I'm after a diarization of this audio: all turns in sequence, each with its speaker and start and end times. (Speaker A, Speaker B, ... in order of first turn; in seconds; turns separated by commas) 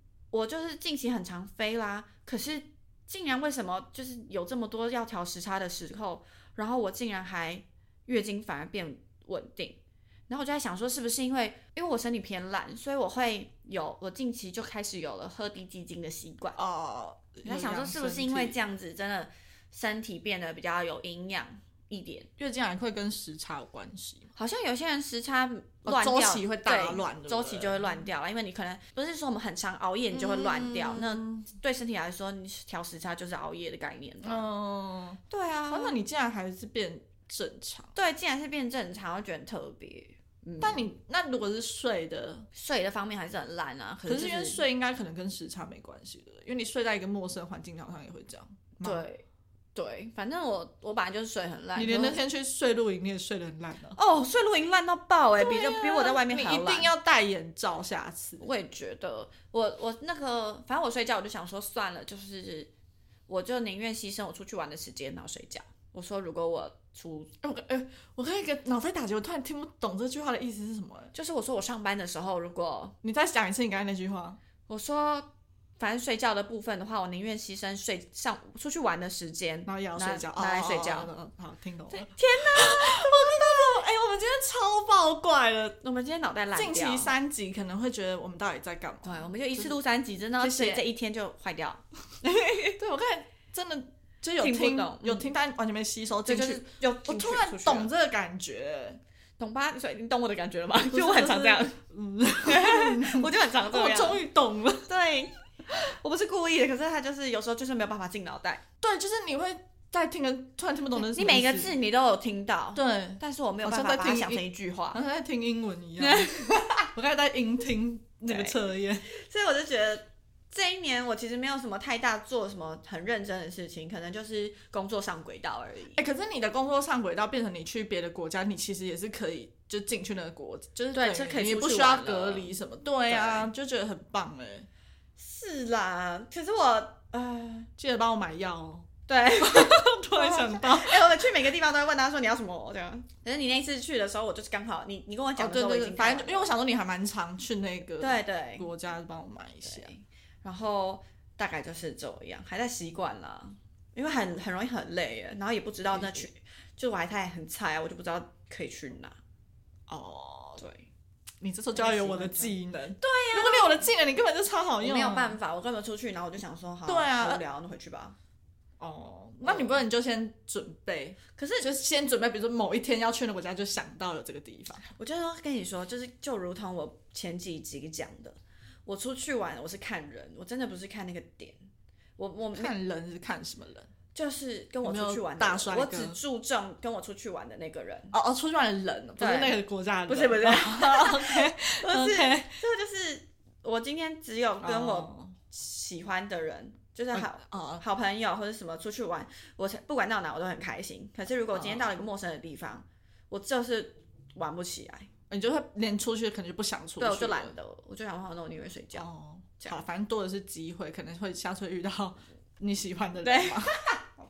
Speaker A: 0.3-16.6, Speaker B: 16.6-18.6, Speaker A: 17.4-22.3, Speaker B: 22.4-24.3, Speaker A: 24.4-34.4, Speaker B: 25.8-28.1, Speaker B: 30.1-31.5, Speaker B: 34.2-37.9, Speaker A: 35.3-36.0, Speaker A: 37.9-40.9, Speaker B: 40.6-42.5, Speaker A: 42.5-44.6, Speaker B: 44.0-49.0, Speaker A: 48.8-49.2, Speaker A: 49.7-52.2, Speaker B: 51.7-54.0, Speaker A: 54.0-56.9, Speaker B: 55.4-58.4, Speaker A: 58.4-62.7, Speaker A: 63.3-67.3, Speaker B: 67.4-71.1, Speaker A: 71.1-73.0, Speaker B: 73.0-74.4, Speaker A: 74.7-81.1, Speaker B: 79.7-85.8, Speaker A: 81.9-83.8, Speaker A: 85.8-87.1, Speaker B: 86.5-89.7, Speaker A: 89.0-92.8, Speaker B: 90.4-90.8, Speaker B: 92.8-99.0, Speaker A: 94.4-95.3, Speaker A: 96.2-97.9, Speaker A: 99.4-101.8, Speaker B: 100.9-104.9, Speaker A: 102.4-104.2, Speaker A: 104.9-108.6, Speaker B: 108.8-111.7, Speaker A: 111.0-115.0, Speaker B: 112.7-119.0, Speaker A: 116.0-116.9, Speaker A: 118.3-126.0, Speaker B: 125.9-134.7, Speaker A: 130.9-132.5, Speaker A: 133.1-133.5, Speaker A: 135.2-137.7, Speaker B: 137.8-138.9, Speaker A: 139.1-146.5, Speaker B: 139.4-141.2, Speaker B: 145.4-149.9, Speaker A: 148.0-148.7, Speaker A: 149.6-159.2, Speaker B: 155.9-156.2, Speaker B: 159.9-160.6, Speaker A: 160.6-160.9, Speaker B: 161.4-165.4, Speaker A: 161.7-163.7, Speaker A: 164.8-168.2, Speaker B: 166.9-167.4, Speaker B: 168.8-174.8, Speaker A: 169.4-169.8, Speaker A: 171.3-171.7, Speaker A: 174.9-181.6, Speaker A: 182.2-182.7, Speaker B: 182.5-183.9, Speaker A: 184.1-188.1, Speaker B: 184.8-186.2, Speaker B: 188.1-192.6, Speaker A: 189.2-205.1, Speaker B: 194.6-195.3, Speaker B: 197.1-197.8, Speaker B: 201.5-201.9, Speaker B: 205.3-207.5, Speaker A: 207.0-209.1, Speaker B: 208.9-213.8, Speaker A: 213.2-214.1